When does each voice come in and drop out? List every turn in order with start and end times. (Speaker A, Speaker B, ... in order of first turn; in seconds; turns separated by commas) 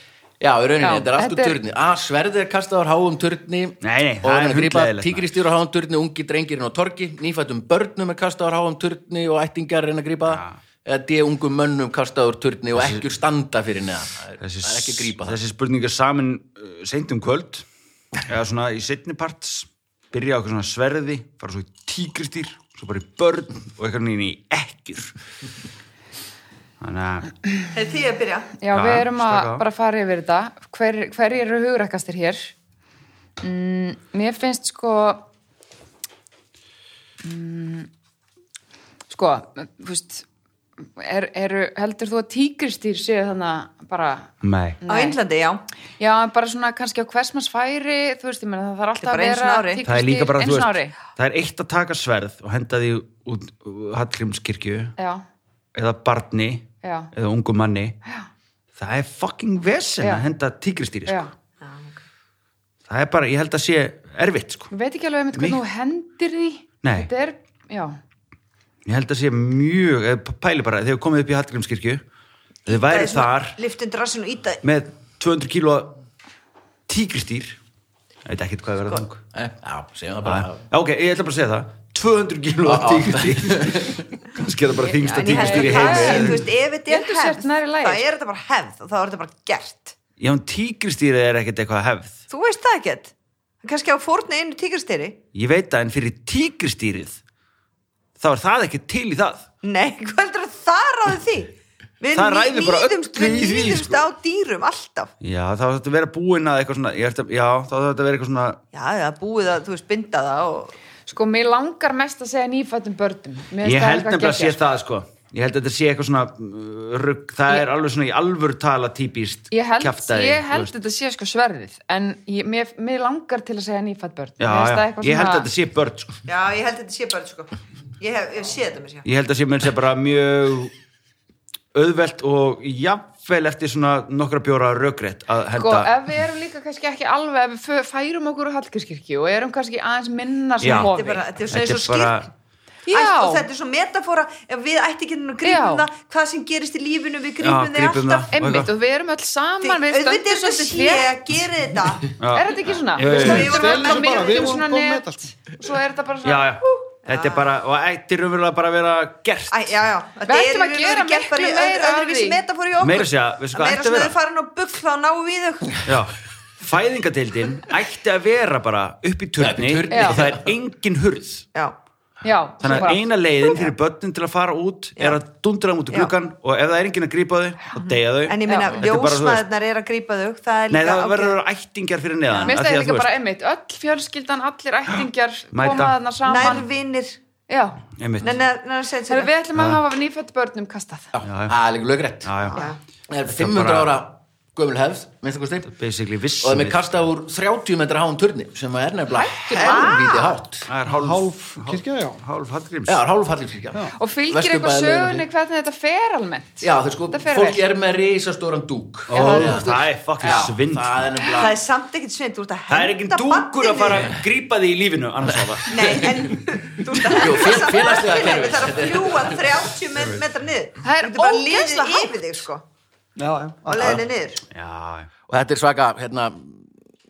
Speaker A: 0.4-15.4, Speaker B: 0.8-1.6, Speaker C: 3.8-5.4, Speaker C: 10.3-10.6, Speaker C: 12.8-13.0, Speaker C: 14.4-17.7, Speaker C: 18.2-25.1, Speaker C: 26.8-27.3, Speaker D: 27.7-28.5, Speaker B: 28.6-32.5, Speaker C: 28.7-29.6, Speaker B: 33.4-35.3, Speaker B: 37.2-37.9, Speaker B: 39.1-40.3, Speaker B: 40.8-44.3, Speaker C: 44.4-44.8, Speaker B: 44.8-45.2, Speaker D: 44.9-45.6, Speaker B: 46.0-51.0, Speaker D: 49.0-49.8, Speaker C: 49.9-55.0, Speaker B: 55.0-55.2, Speaker C: 55.8-58.0, Speaker B: 56.8-57.1, Speaker C: 58.8-61.2, Speaker B: 61.1-61.3, Speaker D: 61.6-62.0, Speaker C: 62.9-64.7, Speaker B: 64.7-68.0, Speaker C: 65.3-65.6, Speaker C: 66.8-67.1, Speaker C: 68.9-72.0, Speaker C: 72.7-73.6, Speaker D: 72.7-74.6, Speaker C: 74.6-76.0, Speaker C: 76.9-77.6, Speaker C: 78.3-79.2, Speaker A: 79.3-80.6, Speaker C: 80.2-86.5, Speaker A: 82.7-84.0, Speaker D: 84.8-90.0, Speaker B: 85.2-88.0, Speaker C: 90.2-92.2, Speaker D: 92.3-95.2, Speaker C: 95.3-97.2, Speaker C: 98.2-99.5, Speaker D: 99.6-105.1, Speaker C: 102.1-104.0, Speaker C: 105.2-108.6, Speaker D: 108.7-110.8, Speaker B: 111.1-114.6, Speaker C: 113.6-120.7, Speaker B: 119.5-125.5, Speaker C: 124.4-126.2, Speaker D: 126.3-129.1, Speaker C: 129.1-130.7, Speaker C: 131.7-135.9, Speaker B: 135.6-141.2, Speaker C: 140.6-140.9, Speaker D: 140.7-142.3, Speaker C: 141.5-142.3, Speaker B: 142.9-143.5, Speaker D: 142.9-148.3, Speaker B: 145.4-145.9, Speaker C: 147.4-148.7, Speaker B: 148.3-151.1, Speaker D: 149.6-152.2, Speaker C: 152.2-153.7, Speaker B: 152.3-156.5, Speaker D: 153.1-154.6, Speaker E: 153.2-155.3, Speaker C: 156.2-159.7, Speaker D: 156.9-157.5, Speaker D: 159.5-165.8, Speaker B: 160.3-162.4, Speaker C: 162.8-164.2, Speaker C: 165.8-171.5, Speaker A: 169.4-170.5, Speaker B: 169.9-170.2, Speaker B: 172.2-173.1, Speaker C: 172.6-179.4, Speaker D: 177.8-181.4, Speaker B: 178.5-178.8, Speaker C: 180.7-183.1, Speaker D: 182.3-182.6, Speaker B: 182.5-186.7, Speaker C: 185.5-186.0, Speaker D: 186.3-187.2, Speaker B: 187.5-187.8, Speaker C: 188.0-188.4, Speaker D: 188.2-189.3, Speaker B: 189.1-191.1, Speaker C: 189.6-189.8, Speaker A: 191.1-192.3, Speaker C: 191.2-191.6, Speaker C: 192.2-192.6, Speaker D: 192.5-192.8, Speaker A: 193.1-195.7, Speaker C: 193.2-194.0, Speaker C: 195.7-196.9, Speaker A: 196.4-200.7, Speaker B: 199.1-200.1, Speaker C: 199.6-199.9, Speaker D: 199.6-200.4, Speaker C: 200.7-203.0, Speaker E: 200.8-202.2, Speaker A: 202.9-205.3, Speaker B: 203.9-207.6, Speaker A: 206.6-211.6, Speaker C: 209.1-211.1, Speaker D: 211.4-214.1, Speaker C: 212.7-216.1, Speaker D: 215.7-222.6, Speaker A: 215.8-216.1, Speaker A: 217.0-219.6, Speaker B: 220.8-222.2, Speaker E: 223.2-224.0, Speaker D: 223.7-224.4, Speaker A: 223.8-224.0, Speaker C: 224.5-225.1, Speaker A: 225.3-226.7